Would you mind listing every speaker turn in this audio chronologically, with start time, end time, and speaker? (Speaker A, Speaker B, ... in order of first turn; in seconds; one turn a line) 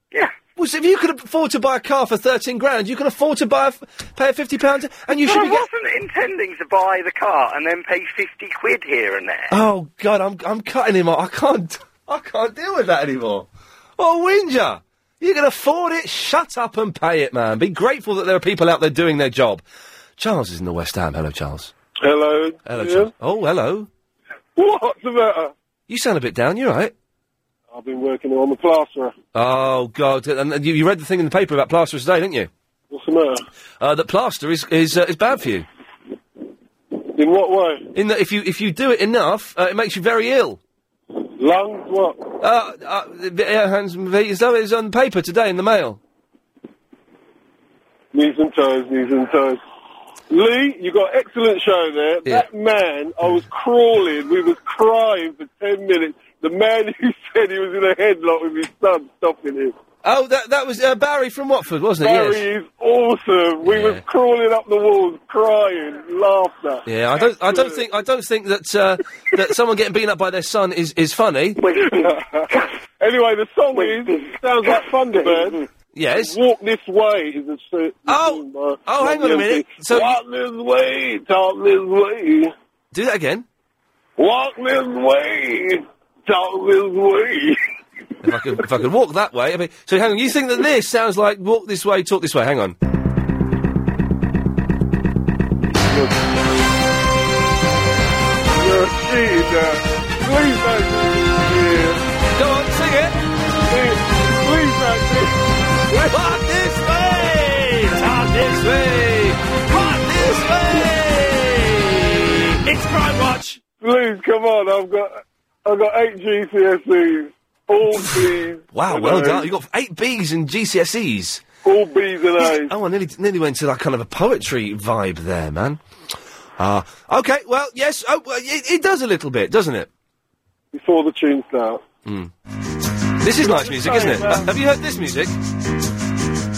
Speaker A: 0.6-5.7
Speaker B: 5.1-9.5
Speaker A: 9.5-19.6
Speaker A: 20.2-21.7
Speaker C: 22.0-23.1
Speaker A: 22.6-23.9
Speaker C: 24.6-25.5
Speaker A: 25.9-26.9
Speaker C: 27.7-29.1
Speaker A: 29.3-32.5
Speaker C: 32.9-33.4
Speaker A: 33.8-35.6
Speaker C: 37.1-37.8
Speaker A: 37.9-40.6
Speaker C: 41.4-42.2
Speaker A: 42.4-46.0
Speaker C: 48.1-49.6
Speaker C: 50.3-59.7
Speaker A: 60.0-62.5
Speaker C: 62.0-67.8
Speaker A: 63.6-64.0
Speaker A: 66.8-71.6
Speaker C: 71.6-75.6
Speaker A: 75.9-76.3
Speaker C: 76.1-82.5
Speaker A: 78.1-80.2
Speaker A: 82.9-83.5
Speaker C: 84.2-87.6
Speaker A: 88.2-92.8
Speaker C: 95.7-96.2
Speaker C: 98.5-102.0
Speaker A: 102.3-103.2
Speaker C: 103.7-105.3
Speaker C: 105.9-106.3
Speaker A: 106.1-113.6
Speaker C: 109.7-110.9
Speaker C: 113.8-119.5
Speaker A: 117.9-121.4
Speaker C: 121.6-122.7
Speaker A: 122.4-125.8
Speaker A: 126.6-129.9
Speaker C: 130.7-131.8
Speaker A: 132.1-132.3
Speaker A: 133.2-135.3
Speaker C: 133.4-134.5